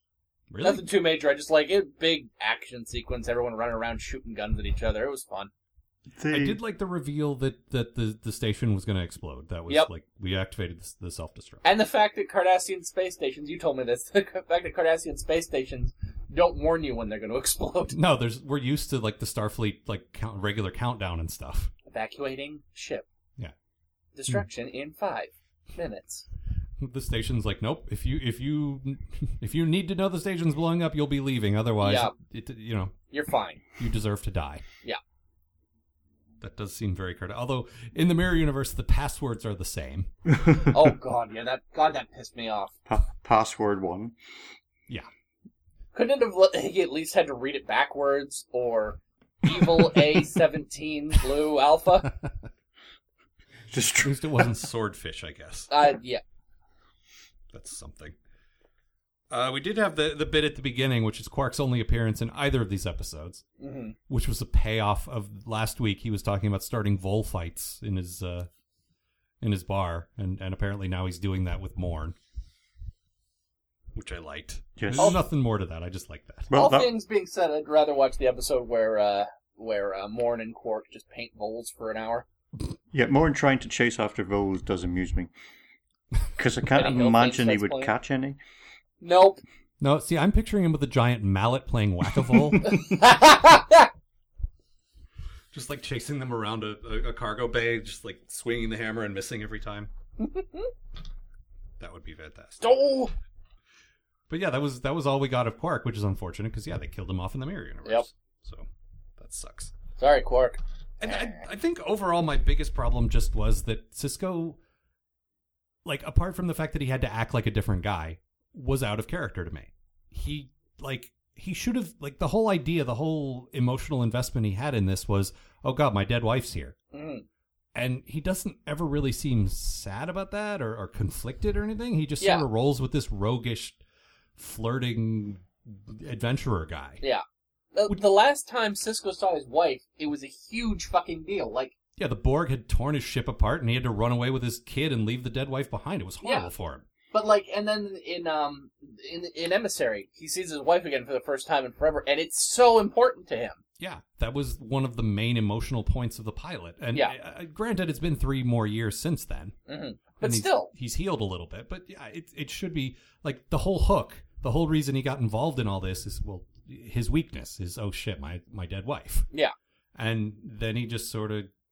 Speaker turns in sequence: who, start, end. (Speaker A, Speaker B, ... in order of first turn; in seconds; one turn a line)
Speaker A: 0.5-0.9
Speaker B: 0.6-5.5
Speaker C: 6.1-6.6
Speaker A: 6.3-11.6
Speaker B: 11.6-17.9
Speaker A: 17.9-21.7
Speaker B: 21.9-23.1
Speaker B: 24.1-26.2
Speaker A: 26.8-33.0
Speaker B: 31.8-32.1
Speaker B: 33.1-33.6
Speaker A: 33.8-34.6
Speaker A: 36.4-40.1
Speaker B: 40.7-42.7
Speaker C: 42.9-44.1
Speaker B: 45.9-52.1
Speaker C: 53.7-54.5
Speaker A: 54.0-55.7
Speaker B: 55.7-56.2
Speaker A: 57.5-58.1
Speaker A: 59.3-63.4
Speaker B: 63.6-64.0
Speaker A: 64.1-68.5
Speaker A: 69.4-72.2
Speaker A: 73.9-76.5
Speaker C: 74.8-75.2
Speaker C: 76.5-76.9
Speaker B: 76.5-82.2
Speaker C: 82.9-85.3
Speaker C: 86.3-88.4
Speaker B: 86.7-87.9
Speaker B: 89.0-89.4
Speaker A: 89.8-92.8
Speaker B: 92.7-93.9
Speaker A: 95.5-99.9
Speaker B: 100.2-100.7
Speaker A: 101.8-102.7
Speaker B: 102.6-103.1
Speaker A: 104.3-108.7
Speaker A: 109.2-109.7
Speaker B: 110.0-111.4
Speaker A: 111.0-114.6
Speaker A: 115.8-126.8
Speaker B: 126.9-127.2
Speaker A: 127.7-133.8
Speaker B: 132.2-132.4
Speaker A: 134.4-137.0
Speaker B: 137.7-141.7
Speaker A: 142.0-146.8
Speaker B: 147.1-153.6
Speaker A: 153.8-159.6
Speaker B: 159.7-160.7
Speaker A: 160.2-169.3
Speaker A: 169.9-171.5